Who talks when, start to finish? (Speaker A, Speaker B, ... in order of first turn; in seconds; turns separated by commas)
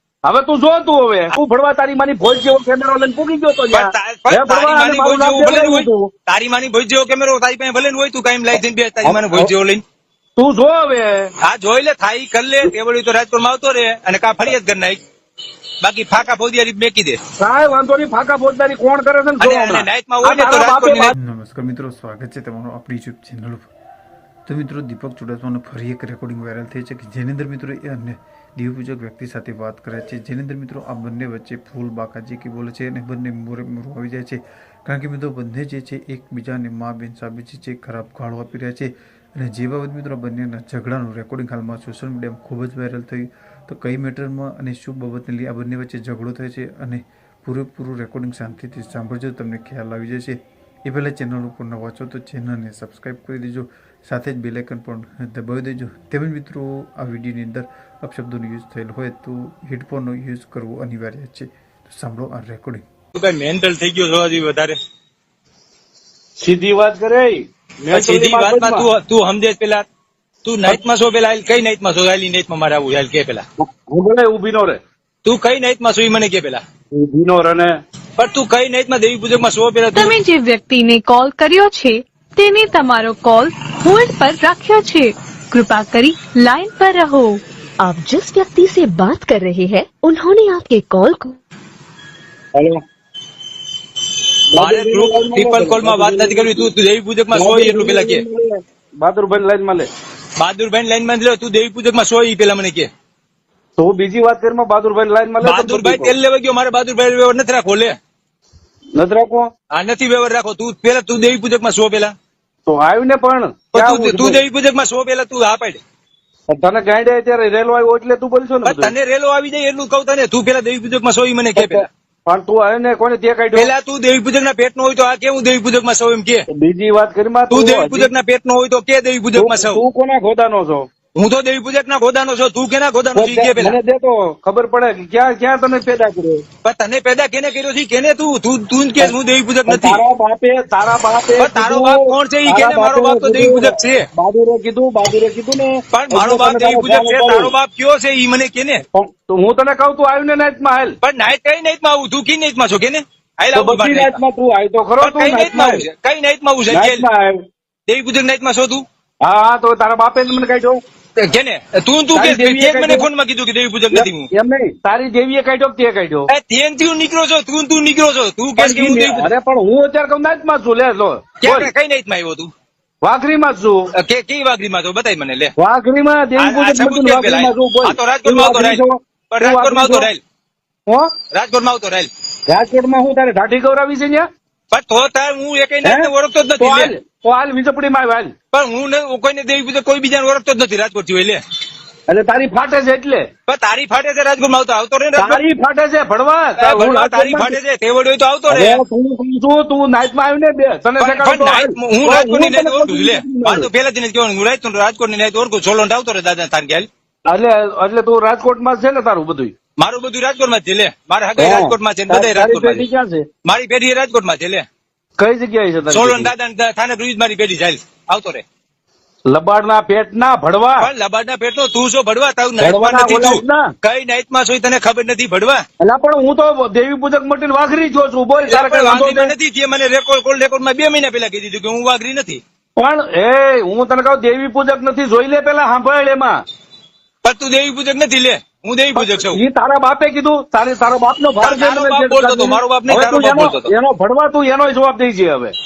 Speaker A: 0.2-6.1, Speaker B: 3.7-9.8, Speaker A: 9.0-9.5, Speaker A: 10.4-11.3, Speaker B: 11.4-15.0, Speaker B: 15.8-17.2, Speaker A: 17.4-21.1, Speaker B: 19.4-21.1, Speaker C: 21.1-23.7, Speaker C: 24.4-62.8, Speaker B: 63.1-64.8, Speaker A: 66.4-68.9, Speaker B: 67.9-69.8, Speaker B: 70.4-73.4, Speaker A: 73.7-74.8, Speaker B: 75.2-76.6, Speaker A: 76.9-77.8, Speaker B: 78.2-80.1, Speaker D: 79.9-87.4, Speaker E: 87.8-91.4, Speaker A: 92.5-92.8, Speaker A: 94.5-96.7, Speaker B: 94.6-98.2, Speaker A: 97.3-99.9, Speaker B: 100.4-102.9, Speaker A: 103.8-106.1, Speaker B: 105.4-108.0, Speaker A: 109.0-109.5, Speaker B: 109.7-112.1, Speaker A: 112.7-114.4, Speaker B: 113.7-115.8, Speaker A: 116.5-118.9, Speaker B: 118.6-121.8, Speaker A: 121.5-123.7, Speaker B: 123.5-126.4, Speaker A: 126.5-128.1, Speaker B: 127.5-129.8, Speaker A: 129.3-130.8, Speaker B: 131.1-133.8, Speaker A: 133.1-136.4, Speaker B: 136.6-140.0, Speaker A: 139.7-147.5, Speaker B: 141.4-144.0, Speaker B: 145.9-148.8, Speaker A: 148.9-151.0, Speaker B: 151.0-154.2, Speaker A: 153.5-155.8, Speaker B: 155.0-157.0, Speaker A: 156.7-157.4, Speaker B: 157.9-158.8, Speaker A: 159.2-160.8, Speaker B: 161.2-164.3, Speaker A: 162.1-163.1, Speaker A: 163.9-166.3, Speaker B: 166.3-169.3, Speaker A: 168.6-171.7, Speaker B: 171.4-172.5, Speaker A: 173.0-173.8, Speaker B: 174.0-175.5, Speaker A: 175.6-180.1, Speaker B: 176.4-180.2, Speaker B: 181.3-182.1, Speaker A: 182.5-184.3, Speaker B: 184.7-186.9, Speaker A: 185.8-186.1, Speaker A: 186.6-188.3, Speaker B: 188.5-191.4, Speaker A: 192.1-193.2, Speaker B: 193.5-195.4, Speaker A: 195.2-197.6, Speaker B: 196.6-198.8, Speaker A: 198.5-203.7, Speaker B: 201.0-206.9, Speaker A: 207.3-209.5, Speaker B: 209.8-212.9, Speaker A: 211.4-213.2, Speaker B: 213.4-214.6, Speaker A: 215.2-216.3, Speaker B: 215.9-218.4, Speaker A: 219.3-220.9, Speaker B: 220.8-225.6, Speaker A: 222.6-223.7, Speaker A: 225.8-229.3, Speaker B: 228.5-232.4, Speaker A: 232.8-236.4, Speaker B: 237.2-239.4, Speaker A: 238.9-245.5, Speaker B: 241.4-243.7